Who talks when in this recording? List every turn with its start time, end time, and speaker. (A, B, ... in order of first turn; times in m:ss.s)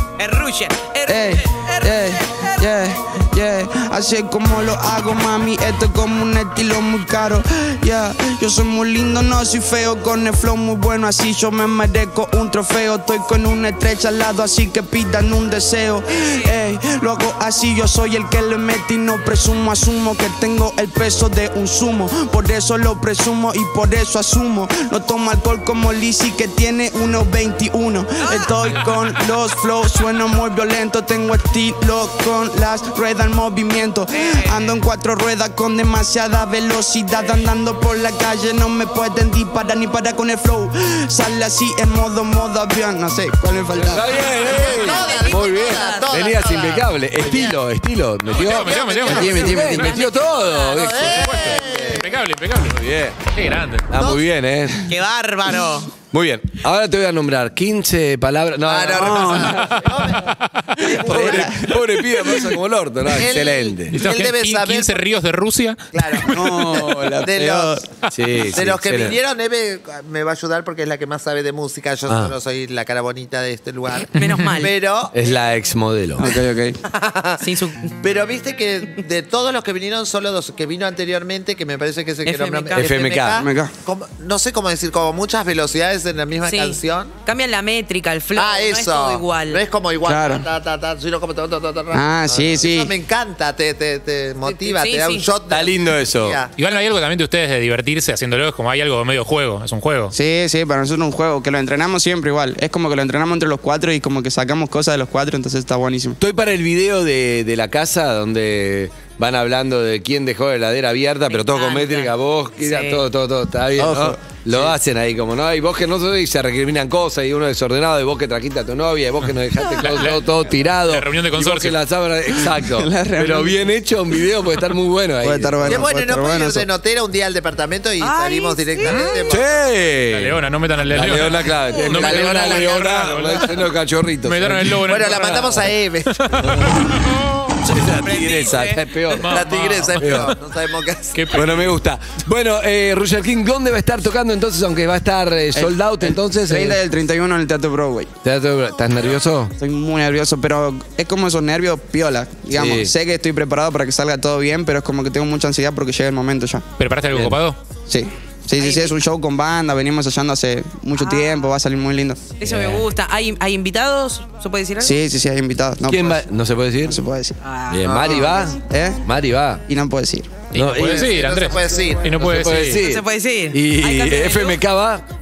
0:00.2-0:02.8 A
0:01.1-0:44.2 B
0:16.1-0:16.6 A
0:28.2-0:28.5 A
0:34.1-0:34.7 A
0:43.8-0:51.3 C
0:44.3-0:47.6 D
0:44.5-0:46.1 A
0:48.3-0:50.0 E
0:48.3-0:49.8 D
0:49.0-0:50.0 B
0:49.6-0:50.9 A
0:50.7-0:52.2 D
0:51.0-0:53.9 E
0:52.6-0:53.2 C
0:53.9-0:54.8 C
0:53.9-0:54.2 D
0:54.9-0:55.9 A
0:56.1-0:59.5 C
0:58.6-1:01.7 D
0:58.9-0:59.7 B
1:01.0-1:02.6 B
1:01.0-1:04.0 C
1:03.1-1:05.2 D
1:03.9-1:06.7 E
1:05.9-1:06.4 D
1:06.2-1:07.9 B
1:07.2-1:07.8 D
1:08.1-1:09.2 C
1:08.4-1:15.2 D
1:12.1-1:12.3 C
1:14.1-1:14.7 A
1:14.2-1:14.5 E
1:15.1-1:16.2 C
1:16.2-1:16.8 B
1:16.8-1:27.1 D
1:17.4-1:17.9 A
1:22.2-1:22.9 A
1:22.7-1:23.4 C
1:23.4-1:23.7 B
1:26.4-1:29.6 A
1:28.3-1:36.5 D
1:30.0-1:30.5 B
1:31.9-1:32.9 B
1:34.4-1:35.3 A
1:35.5-1:36.4 C
1:36.6-1:40.1 E
1:40.1-1:46.2 B
1:46.2-2:05.9 C
1:51.3-1:53.0 A
1:53.8-1:54.7 B
1:59.8-2:00.2 E
2:00.8-2:01.8 E
2:02.6-2:03.7 B
2:05.2-2:06.7 B
2:05.6-2:09.5 D
2:08.0-2:09.2 A
2:08.8-2:09.2 E
2:09.3-2:14.8 C
2:10.1-2:13.6 E
2:11.8-2:13.0 D
2:14.2-2:17.2 E
2:14.9-2:16.5 D
2:16.4-2:16.8 C
2:17.6-2:19.4 C
2:17.8-2:18.8 A
2:19.1-2:20.4 E
2:19.2-2:21.5 D
2:20.0-2:20.3 C
2:21.1-2:21.7 E
2:21.3-2:26.8 C
2:25.5-2:28.1 B
2:28.2-2:29.5 C
2:29.6-2:36.6 B
2:32.5-2:32.9 C
2:36.8-2:37.6 E
2:37.1-2:37.4 C
2:37.9-2:42.3 B
2:38.6-2:39.0 A
2:41.0-2:41.4 A
2:42.4-2:44.9 A
2:42.4-2:42.8 C
2:44.8-2:46.2 B
2:45.9-2:47.0 C
2:46.8-2:47.4 B
2:47.4-2:48.0 A
2:47.7-2:49.6 C
2:47.8-2:48.5 D
2:48.6-2:49.0 B
2:49.7-2:50.4 B
2:50.5-2:52.8 E
2:50.5-2:51.1 C
2:50.7-2:52.1 D
2:52.2-2:55.0 C
2:52.7-2:54.6 A